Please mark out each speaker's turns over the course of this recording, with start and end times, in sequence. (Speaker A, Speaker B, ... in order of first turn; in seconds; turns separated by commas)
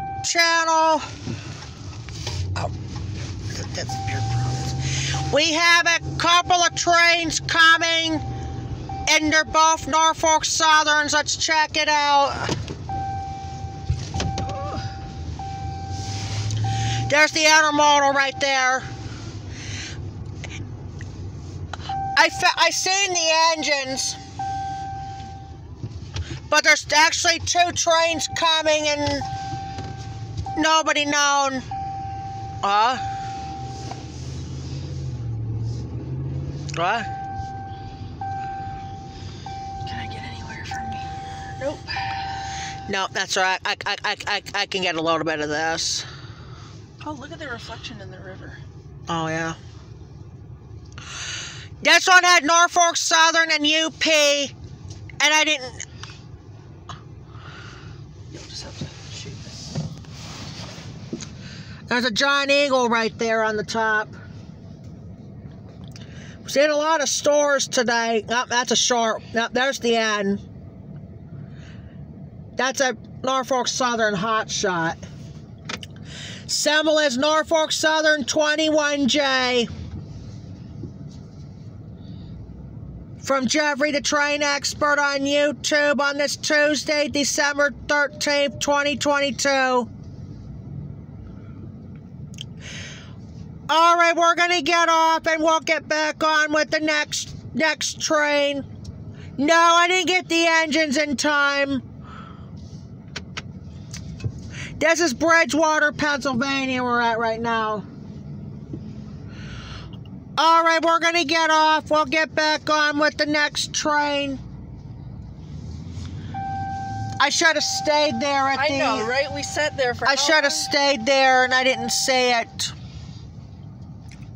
Speaker A: 0.2-1.1, Speaker A: 3.5-8.2, Speaker A: 9.1-12.5, Speaker A: 17.1-18.9, Speaker A: 22.1-24.2, Speaker A: 26.5-29.2, Speaker A: 30.6-31.6, Speaker A: 32.6-33.0, Speaker A: 36.7-37.1, Speaker B: 39.8-42.3, Speaker A: 42.9-46.1, Speaker B: 47.0-48.6, Speaker A: 49.1-49.6, Speaker A: 51.8-54.5, Speaker A: 55.2-55.8, Speaker B: 58.3-59.7, Speaker A: 61.9-64.2, Speaker A: 66.4-70.4, Speaker A: 72.6-75.0, Speaker A: 76.5-79.7, Speaker A: 83.2-89.9, Speaker A: 93.7-98.7, Speaker A: 99.4-101.8, Speaker A: 104.8-107.8, Speaker A: 110.4-114.4, Speaker A: 117.2-119.1, Speaker B: 118.5-120.7, Speaker A: 120.0-122.7